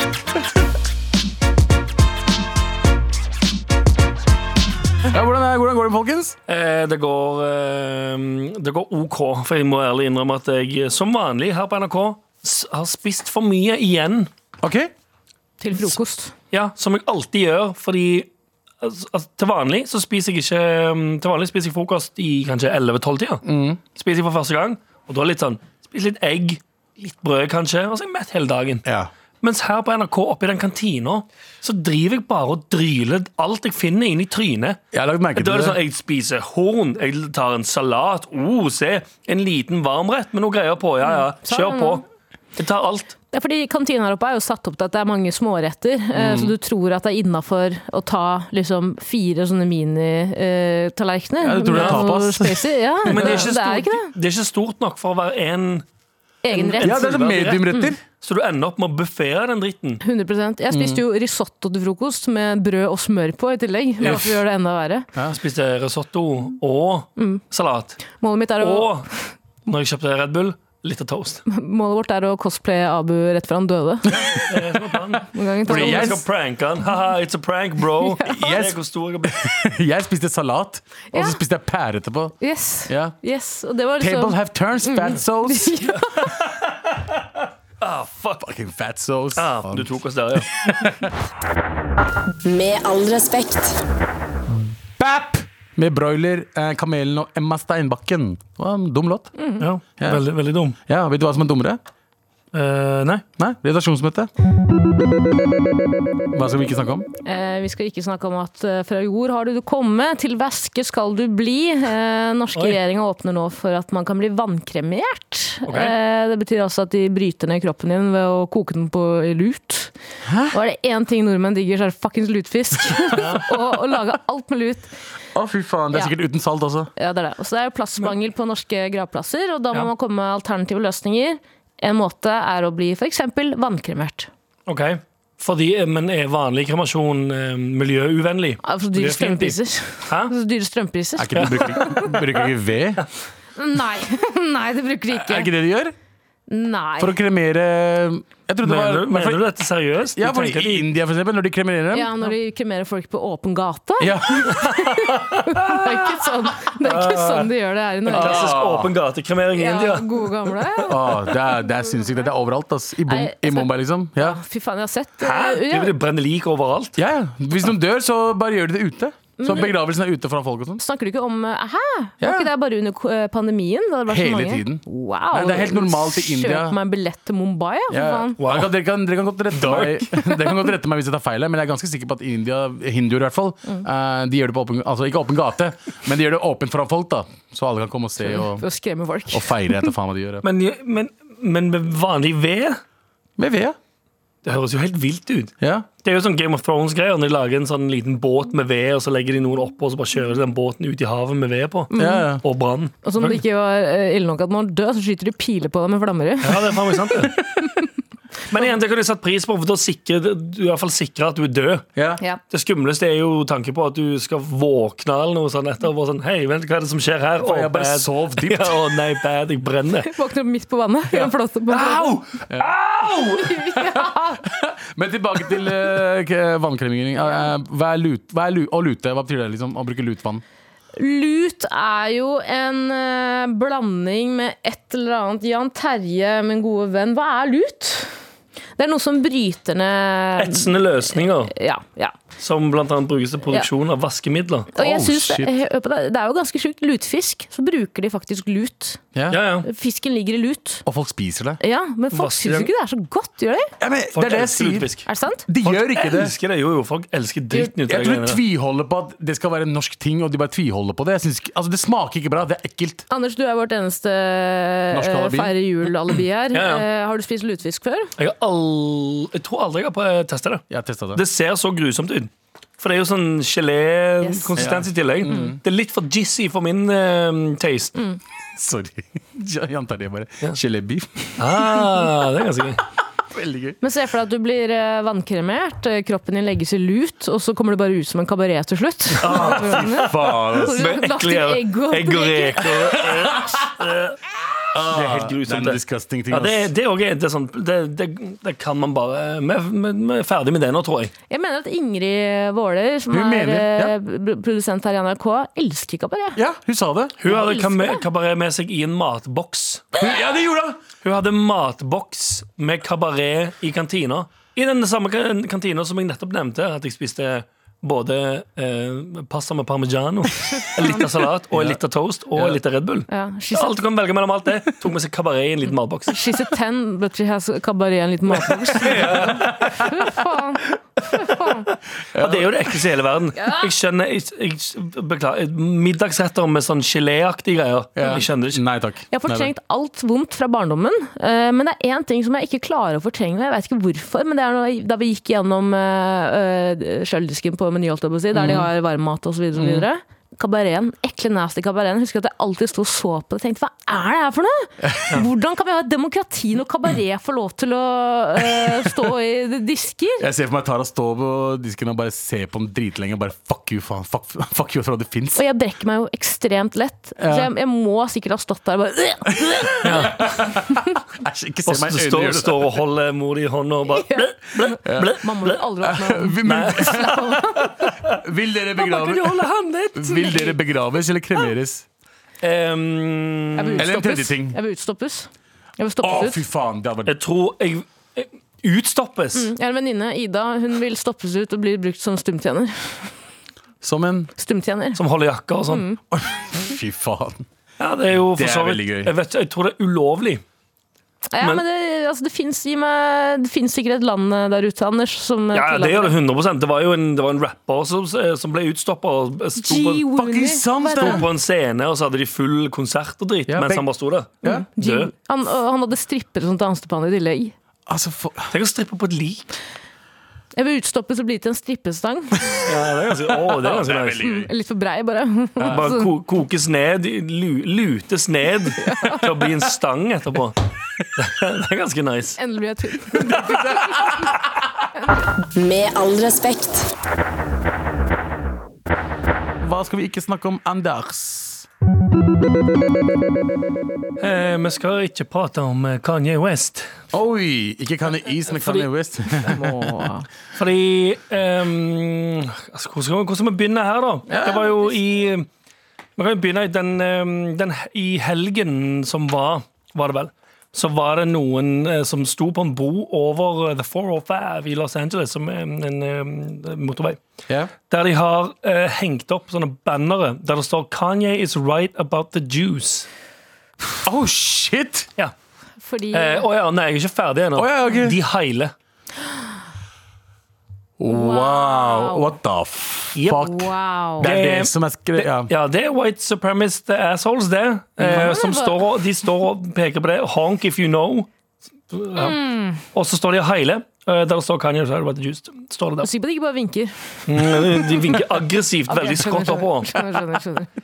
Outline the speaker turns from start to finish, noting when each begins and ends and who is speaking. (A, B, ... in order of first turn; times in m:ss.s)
0:05.0-0:06.4 A
0:06.5-0:14.3 B
0:14.6-0:14.9 A
0:15.6-0:16.3 C
0:16.5-0:18.3 B
0:18.8-0:28.8 B
0:23.4-0:23.8 A
0:28.8-0:29.1 A
0:29.4-0:34.8 B
0:34.9-0:35.8 A
0:35.4-0:42.0 B
0:41.0-0:42.0 C
0:42.6-0:43.1 B
0:43.3-0:54.1 C
0:46.1-0:46.6 A
0:51.4-0:53.4 A
0:51.7-0:52.0 B
0:53.1-0:55.8 B
0:56.4-0:57.0 C
0:56.5-1:00.0 B
0:56.8-0:58.0 A
1:00.0-1:05.1 C
1:00.7-1:01.0 A
1:04.0-1:04.3 B
1:05.3-1:08.0 B
1:08.1-1:09.0 C
1:08.6-1:09.1 B
1:09.7-1:11.4 B
1:11.5-1:14.4 C
1:14.1-1:14.4 A
1:14.4-1:19.4 B
1:15.3-1:16.2 C
1:15.7-1:16.2 A
1:18.0-1:18.6 C
1:18.2-1:22.3 A
1:21.1-1:21.4 C
1:22.4-1:26.2 C
1:22.9-1:23.1 A
1:24.0-1:25.8 A
1:26.0-1:27.2 B
1:27.8-1:28.5 B
1:28.4-1:31.1 A
1:29.3-1:30.5 B
1:32.4-1:33.8 D
1:34.5-1:39.3 A
1:39.4-1:39.7 C
1:39.6-1:40.8 B
1:40.0-1:40.2 A
1:40.9-1:41.8 A
1:42.5-1:43.2 B
1:43.4-1:44.3 A
1:46.3-1:47.1 A
1:47.2-1:59.9 C
1:55.7-1:55.9 B
2:00.2-2:00.5 A
2:00.5-2:04.9 C
2:03.1-2:03.5 B
2:05.3-2:06.9 A
2:07.0-2:14.3 C
2:14.7-2:20.3 B
2:18.6-2:22.0 C
2:21.2-2:23.0 A
2:21.4-2:21.8 B
2:23.6-2:25.5 C
2:25.1-2:25.9 A
2:26.5-2:27.2 C
2:27.0-2:29.4 A
2:28.6-2:30.9 B
2:30.2-2:32.2 A
2:31.9-2:38.6 C
2:34.0-2:34.6 A
2:34.9-2:35.8 B
2:36.8-2:37.5 B
2:38.0-2:41.3 B
2:38.1-2:38.9 A
2:39.5-2:41.3 C
2:40.9-2:44.4 A
2:43.1-2:45.9 C
2:45.2-2:47.0 B
2:47.0-2:50.8 A
2:49.4-2:49.8 C
2:50.8-2:58.4 C
2:52.2-2:52.5 A
2:54.1-2:56.8 A
2:57.9-3:08.7 A
2:58.4-2:58.7 B
2:59.6-3:00.0 B
3:08.2-3:09.8 C
3:09.3-3:10.4 A
3:10.4-3:12.8 B
3:13.4-3:13.8 A
3:14.4-3:23.4 B
3:15.6-3:15.9 A
3:21.9-3:22.2 C
3:22.0-3:22.4 A
3:23.0-3:26.9 C
3:26.4-3:27.4 B
3:28.5-3:31.8 B
3:32.0-3:32.2 A
3:32.5-3:40.1 B
3:37.4-3:38.8 A
3:40.1-3:42.1 C
3:41.1-3:43.6 B
3:42.5-3:42.8 A
3:43.4-3:44.4 C
3:44.4-3:50.4 A
3:50.9-3:58.2 C
3:58.8-4:02.1 C
4:00.4-4:01.5 B
4:02.4-4:04.7 B
4:04.7-4:09.0 C
4:04.8-4:05.5 A
4:09.1-4:09.4 A
4:09.3-4:09.7 B
4:09.6-4:10.8 C
4:10.8-4:11.6 A
4:11.6-4:13.7 C
4:12.1-4:12.7 B
4:13.8-4:14.9 A
4:14.1-4:15.1 B
4:15.1-4:15.4 C
4:15.5-4:16.3 A
4:15.6-4:18.4 B
4:17.5-4:23.0 A
4:23.1-4:28.1 C
4:24.9-4:25.5 A
4:26.5-4:26.9 B
4:28.2-4:37.9 B
4:30.7-4:31.2 A
4:34.2-4:34.6 C
4:34.6-4:35.6 A
4:35.2-4:35.6 C
4:38.6-4:41.6 A
4:41.4-4:42.8 B
4:43.3-4:43.8 A
4:43.8-4:52.8 C
4:49.2-5:01.1 B
4:49.2-4:50.8 A
4:52.7-4:53.6 A
4:54.7-4:56.7 A
5:01.3-5:06.4 C
5:03.1-5:03.9 A
5:06.3-5:07.2 A
5:07.2-5:10.0 B
5:07.2-5:08.1 C
5:10.0-5:10.8 A
5:11.0-5:26.2 B
5:21.5-5:21.8 A
5:22.3-5:22.6 A
5:23.1-5:23.8 C
5:26.1-5:31.7 C
5:28.4-5:29.8 B
5:29.0-5:29.8 A
5:31.7-5:38.6 B
5:32.1-5:32.7 A
5:33.4-5:33.6 C
5:38.0-5:39.5 A
5:39.1-6:00.2 C
5:48.3-5:48.6 A
5:49.6-5:49.8 B
5:54.8-5:55.1 A
5:58.5-5:58.9 A
6:00.2-6:05.4 A
6:05.3-6:10.8 C
6:07.2-6:07.5 A
6:09.3-6:12.8 A
6:09.8-6:10.2 B
6:11.6-6:15.6 B
6:13.9-6:17.8 C
6:14.8-6:15.2 A
6:15.8-6:17.2 A
6:16.4-6:18.2 B
6:18.0-6:19.4 A
6:18.8-6:20.5 B
6:19.9-6:21.8 A
6:22.4-6:23.9 B
6:23.6-6:26.4 C
6:23.8-6:24.6 A
6:26.0-6:27.2 A
6:27.1-6:29.5 B
6:29.3-6:33.1 C
6:33.8-6:34.3 A
6:34.4-6:35.0 C
6:35.0-6:35.8 B
6:35.7-6:36.0 C
6:36.1-6:37.4 A
6:37.8-6:40.4 B
6:38.3-6:39.1 A
6:41.3-6:46.1 C
6:45.5-6:50.0 B
6:49.6-6:51.2 C
6:50.1-6:51.2 A
6:51.0-6:55.1 B
6:53.5-6:53.9 A
6:54.5-6:57.5 C
6:57.9-6:58.5 A
6:58.5-6:59.5 B
7:00.6-7:02.7 C
7:02.6-7:04.2 B
7:03.4-7:04.5 A
7:04.2-7:06.1 C
7:05.6-7:05.9 A
7:05.6-7:10.6 B
7:08.8-7:09.3 C
7:11.2-7:12.4 B
7:12.4-7:14.3 C
7:13.3-7:14.4 A
7:15.5-7:16.9 D
7:19.6-7:21.6 A
7:24.2-7:26.9 B
7:27.1-7:30.0 A
7:28.6-7:30.2 C
7:30.6-7:35.4 B
7:34.3-7:35.0 C
7:34.3-7:34.6 A
7:36.2-7:47.2 B
7:47.9-7:53.1 B
7:54.0-7:55.1 A
7:55.8-7:56.5 C
7:56.1-7:58.7 B
7:57.6-7:58.2 A
8:01.0-8:05.5 A
8:01.1-8:02.3 C
8:03.2-8:03.5 B
8:03.4-8:04.3 C
8:04.2-8:11.3 B
8:08.0-8:08.8 C
8:11.9-8:12.4 B
8:12.2-8:12.8 C
8:12.9-8:16.1 B
8:16.0-8:18.2 C
8:17.3-8:20.0 B
8:18.9-8:20.7 C